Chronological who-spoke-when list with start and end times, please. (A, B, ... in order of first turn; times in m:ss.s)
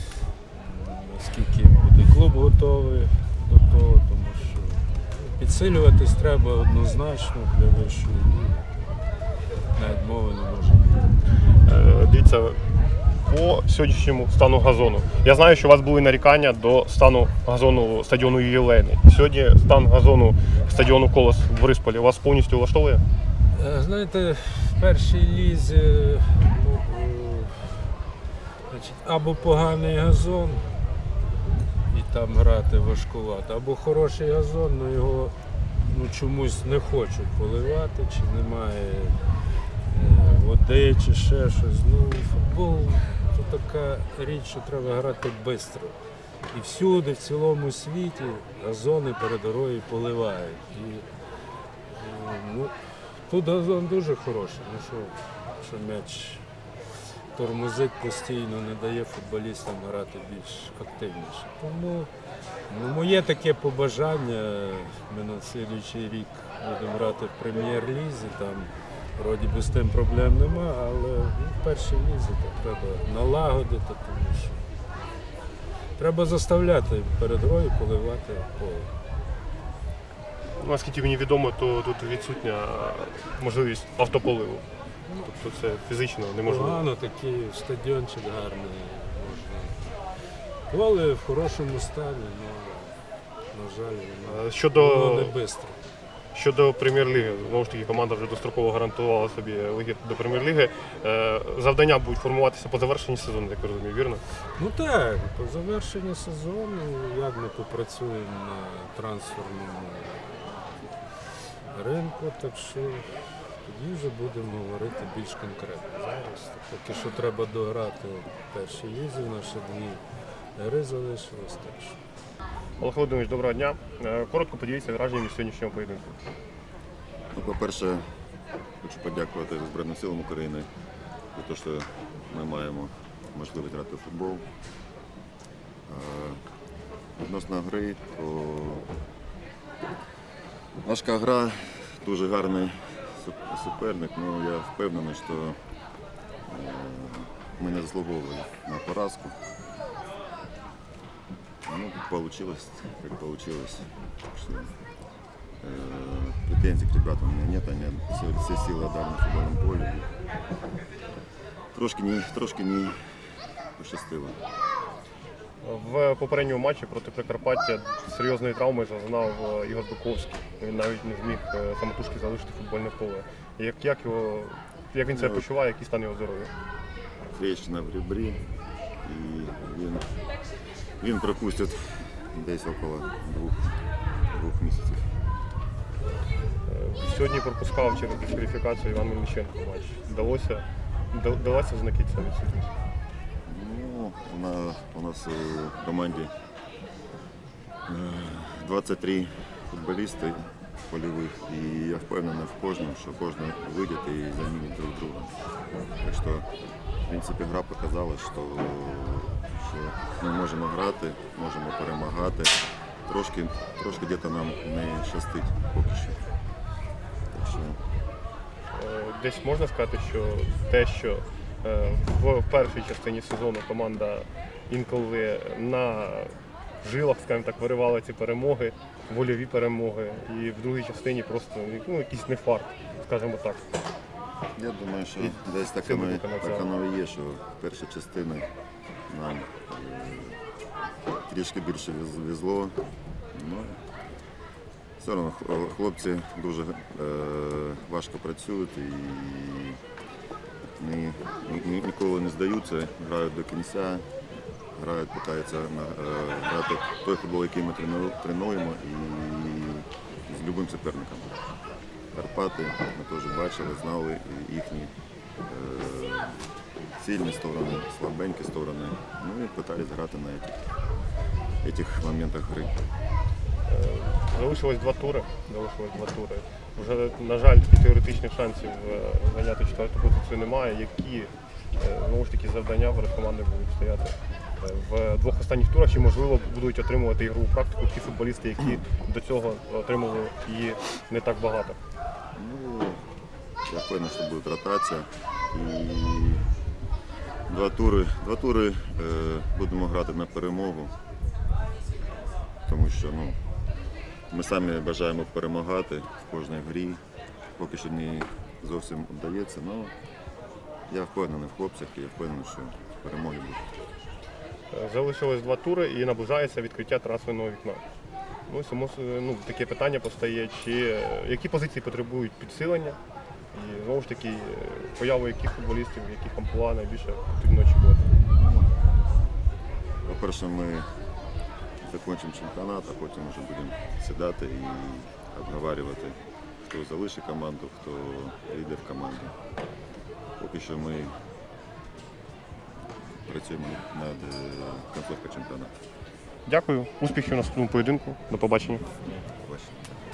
0:00.5-0:09.0 A
0:09.8-0:11.1 A
0:11.7-0:12.7 B
0:13.2-0:23.0 B
0:23.5-0:27.9 A
0:28.7-0:30.7 A
0:31.9-0:39.2 A
0:39.9-0:46.0 A
0:46.5-0:51.1 A
0:51.9-0:56.4 A
0:57.3-1:02.1 A
1:02.7-1:14.6 A
1:16.0-1:18.9 A
1:20.6-1:24.6 B
1:25.2-1:26.8 B
1:26.4-1:29.9 A
1:30.7-1:33.0 A
1:33.5-1:35.8 A
1:34.2-1:35.4 B
1:36.3-1:44.2 B
1:44.6-1:50.5 A
1:51.7-2:00.0 A
2:00.6-2:02.0 A
2:02.8-2:06.2 B
2:07.3-2:08.1 C
2:08.8-2:10.7 C
2:11.3-2:14.5 C
2:15.9-2:16.4 C
2:17.2-2:18.9 C
2:20.8-2:25.6 C
2:26.5-2:29.4 C
2:31.6-2:34.7 C
2:35.6-2:40.1 C
2:41.7-2:43.0 C
2:43.8-2:44.4 C
2:45.6-2:56.5 B
2:57.3-2:58.4 C
2:59.0-3:00.1 C
3:01.0-3:03.7 C
3:04.3-3:05.1 C
3:06.7-3:12.7 B
3:13.5-3:16.3 C
3:17.9-3:25.3 C
3:26.0-3:26.5 C
3:27.1-3:36.2 C
3:37.3-3:37.8 C
3:38.7-3:46.3 B
3:46.8-3:53.7 B
3:54.6-3:58.5 C
3:55.2-3:56.7 B
3:59.1-4:00.4 C
4:01.2-4:03.8 C
4:05.0-4:09.8 C
4:10.6-4:14.1 C
4:14.8-4:21.4 C
4:22.1-4:24.9 C
4:25.5-4:26.4 C
4:27.0-4:30.6 C
4:31.6-4:32.8 C
4:33.7-4:51.8 B
4:52.4-4:53.0 C
4:53.7-4:56.5 C
4:57.5-5:00.9 C
5:02.7-5:03.4 C
5:04.3-5:07.0 C
5:07.6-5:09.9 C
5:10.9-5:13.7 C
5:14.7-5:17.8 B
5:18.5-5:23.0 B
5:23.5-5:28.1 B
5:28.3-5:28.7 C
5:30.0-5:30.9 C
5:31.8-5:39.4 C
5:40.4-5:41.2 C
5:43.3-5:45.8 C
5:46.5-5:48.9 B
5:49.0-5:49.9 C